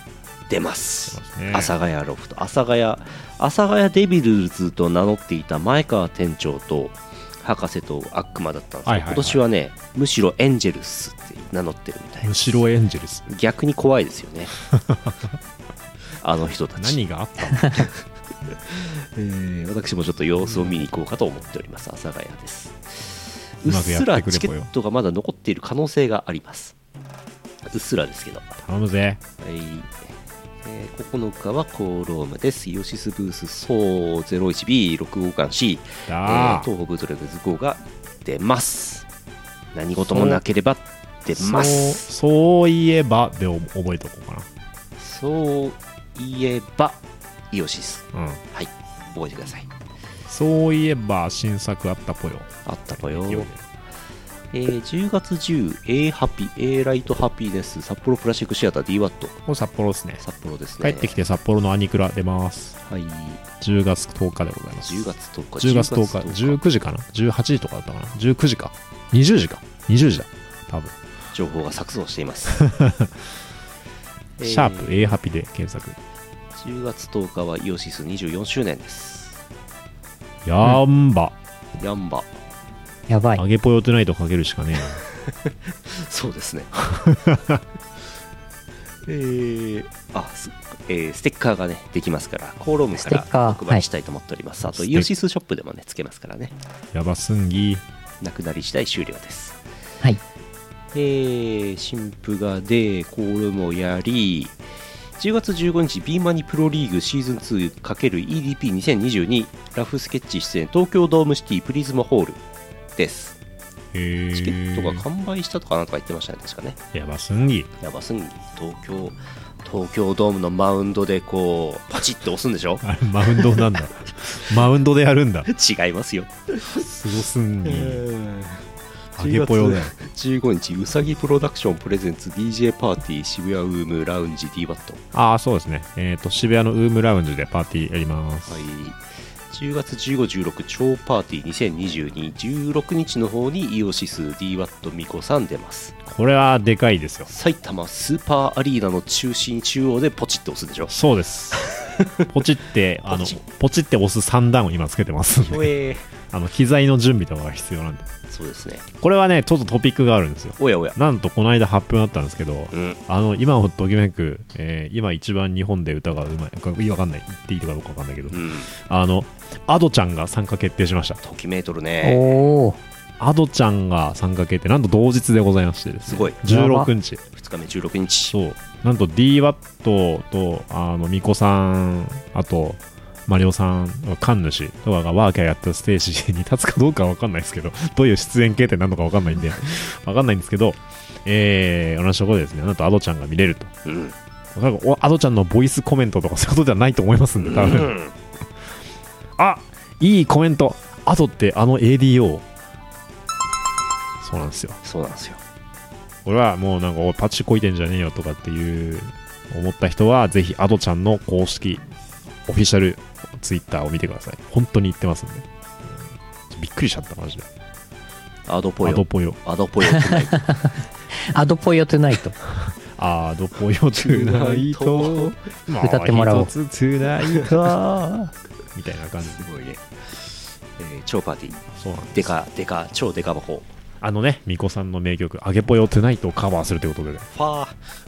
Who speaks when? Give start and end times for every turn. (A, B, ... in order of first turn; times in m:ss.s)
0:00.5-0:12.6 A
0:01.1-0:01.7 B
0:08.8-0:09.4 B
0:12.2-0:13.3 B
0:13.3-0:14.5 A
0:14.7-0:15.1 B
0:16.2-0:17.0 A
0:16.8-0:17.9 B
0:17.6-0:26.7 A
0:20.4-0:20.8 B
0:23.6-0:24.7 B
0:27.6-0:28.6 A
0:28.6-0:29.2 B
0:29.4-0:30.1 A
0:30.6-0:39.1 A
0:36.1-0:36.7 B
0:39.7-0:42.1 A
0:40.1-0:40.4 B
0:41.4-0:44.5 B
0:45.0-0:49.7 A
0:48.1-0:48.4 B
0:50.3-0:53.6 B
0:52.6-0:53.5 A
0:54.5-0:59.4 A
0:59.4-1:00.2 B
1:00.2-1:01.2 A
1:00.8-1:02.8 B
1:02.8-1:03.4 A
1:03.6-1:10.9 B
1:04.8-1:06.6 A
1:11.3-1:12.6 A
1:12.6-1:13.1 B
1:14.4-1:15.1 A
1:14.4-1:16.0 B
1:16.6-1:19.4 A
1:20.4-1:21.4 B
1:21.8-1:22.3 A
1:23.1-1:23.4 C
1:23.4-1:25.0 B
1:25.2-1:26.7 A
1:26.9-1:27.6 B
1:29.0-1:36.6 A
1:33.0-1:33.8 C
1:34.7-1:35.1 B
1:36.9-1:37.8 B
1:38.2-1:39.6 A
1:40.9-1:44.6 A
1:45.2-1:52.4 A
1:53.0-1:53.4 A
1:53.9-1:55.1 B
1:54.3-1:56.8 A
1:56.9-1:57.7 B
1:57.8-2:03.9 A
2:02.8-2:05.5 B
2:05.4-2:06.8 A
2:06.7-2:08.0 B
2:07.6-2:15.0 A
2:09.2-2:09.9 B
2:15.1-2:18.7 B
2:18.4-2:25.9 A
2:26.0-2:27.3 B
2:27.3-2:30.9 A
2:30.9-2:31.7 B
2:31.6-2:32.2 A
2:32.3-2:35.7 B
2:33.1-2:33.4 A
2:35.5-2:36.1 A
2:36.3-2:38.1 B
2:38.3-2:38.8 A
2:38.9-2:51.2 B
2:40.6-2:41.0 A
2:42.7-2:43.0 A
2:48.3-2:48.7 A
2:51.2-2:52.5 A
2:52.0-2:52.8 C
2:53.2-2:57.2 B
2:56.1-2:56.4 A
2:56.4-2:56.9 C
2:57.3-2:58.4 A
2:58.3-3:13.7 B
3:13.8-3:14.1 A
3:14.6-3:18.0 B
3:17.4-3:18.1 A
3:19.4-3:22.4 B
3:24.2-3:24.8 B
3:24.8-3:25.4 A
3:26.2-3:31.8 B
3:32.5-3:35.5 B
3:36.5-3:37.5 B
3:38.5-3:40.5 A
3:38.8-3:39.4 B
3:39.9-3:40.7 C
3:41.3-3:42.4 C
3:42.6-3:49.5 B
3:43.9-3:45.4 A
3:45.8-3:46.5 C
3:47.2-3:47.5 A
3:49.2-3:53.7 A
3:51.7-3:52.3 B
3:54.0-3:57.3 B
3:57.3-3:57.8 A